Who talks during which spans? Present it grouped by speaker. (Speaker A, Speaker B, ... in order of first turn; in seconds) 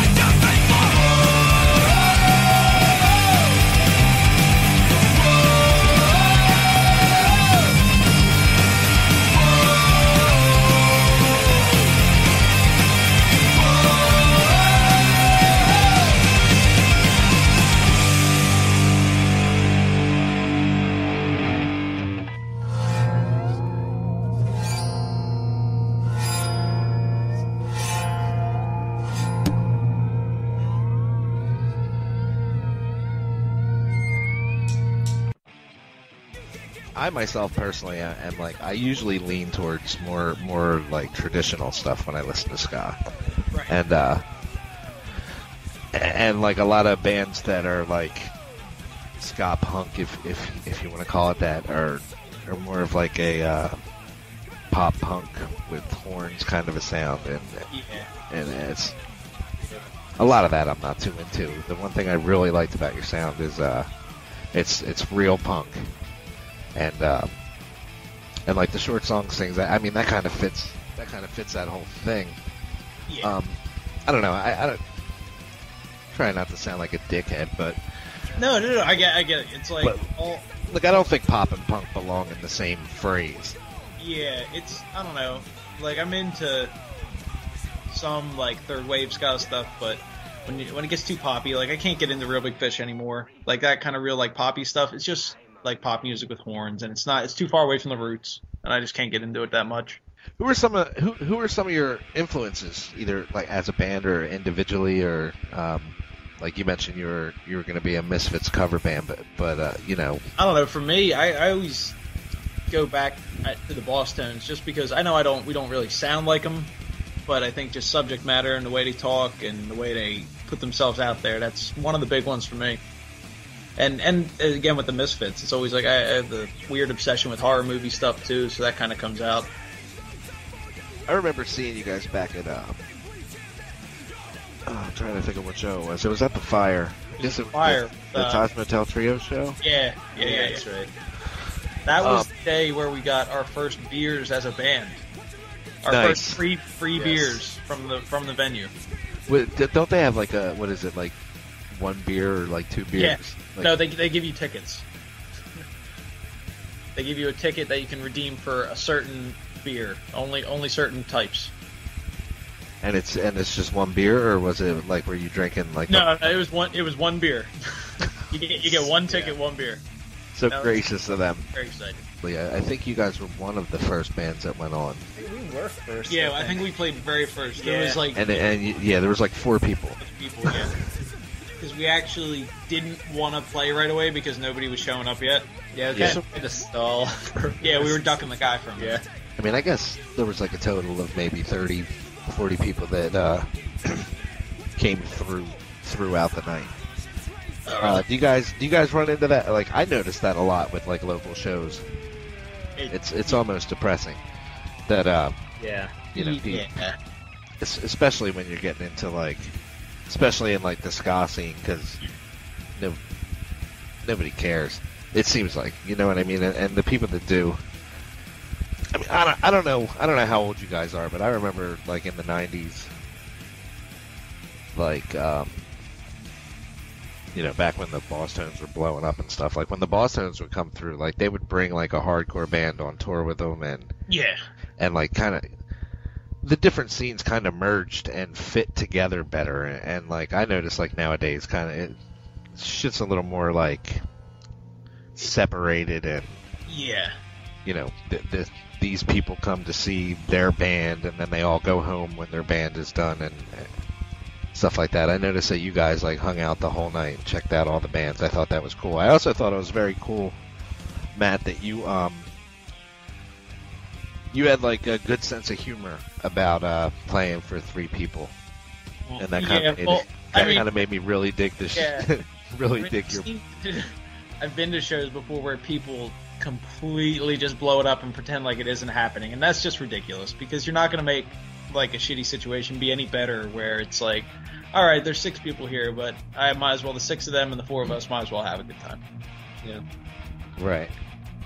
Speaker A: 36.9-43.0, 43.7-44.2, 45.9-48.3, 49.2-53.8, 54.7-57.7, 58.3-59.0, 60.2-63.9, 64.5-65.9, 66.7-67.3, 68.5-72.4, 73.2-74.8, 76.1-77.8, 80.7-83.6, 100.4-110.2, 131.1-132.8, 134.7-139.6, 141.9-142.3, 145.8-146.4, 149.3-151.2, 151.7-153.7, 162.8-166.4, 170.3-171.4, 172.2-175.0, 178.1-180.8, 185.9-186.2, 189.4-194.1, 194.8-196.8, 197.8-201.8, 202.9-204.2, 204.9-205.4, 206.1-206.8, 207.6-212.0, 214.0-217.6, 218.9-222.9, 224.7-225.6, 227.3-233.9, 234.8-235.5, 236.4-242.0, 242.5-244.0, 245.1-246.4, 247.6-253.7, 254.5-260.4, 261.1-262.3, 264.3-268.3, 269.2-273.2, 290.6-290.9
Speaker B: 43.5-43.8, 57.7-58.1, 73.1-73.3, 78.4-80.5, 84.0-86.7, 87.9-100.0, 110.4-112.0, 112.7-116.7, 117.2-122.8, 123.8-129.5, 137.2-138.4, 139.6-140.6, 141.8-145.0, 145.8-148.7, 153.0-154.8, 156.9-161.5, 165.9-169.8, 170.5-170.8, 171.5-172.0, 176.1-178.2, 180.0-180.7, 181.6-186.2, 187.6-189.0, 197.7-198.0, 202.8-203.4, 206.1-207.0, 234.1-234.4, 246.7-247.2, 269.1-270.6, 271.7-272.1, 272.8-289.0
Speaker C: 140.2-140.9, 146.9-147.4, 169.1-169.3, 175.2-176.7, 177.6-178.0, 185.7-188.0, 188.8-189.0, 205.6-205.9